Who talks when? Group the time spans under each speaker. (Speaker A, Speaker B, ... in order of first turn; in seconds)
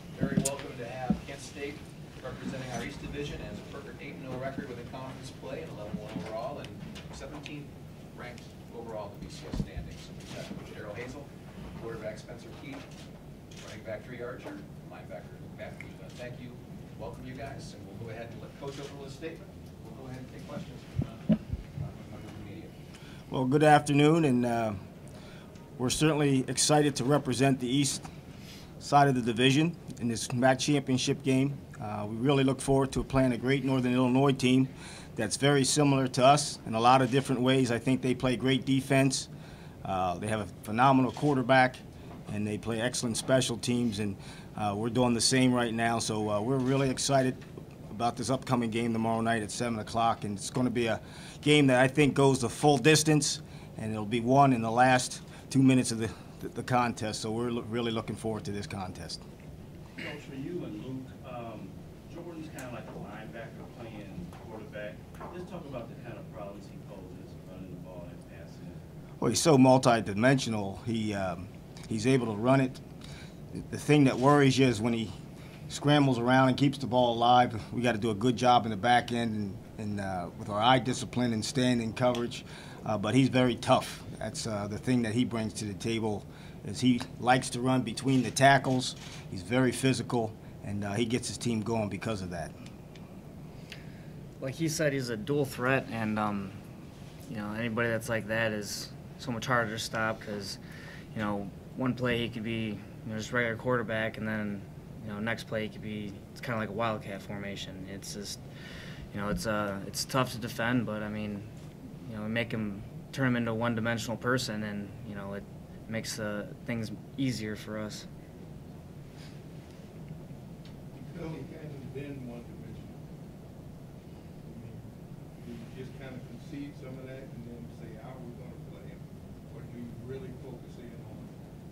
Speaker A: 0.1-12.9, 13.6-21.3, 21.8-22.7
Speaker B: 23.3-24.8, 25.8-28.1, 28.8-39.3, 39.8-59.2, 69.2-72.8, 73.7-75.1, 75.7-92.5
Speaker C: 60.0-68.8
Speaker D: 94.4-96.6, 97.3-100.6, 101.1-108.4, 109.1-111.5, 112.0-118.1
Speaker E: 120.9-123.0, 124.4-124.9, 125.4-131.3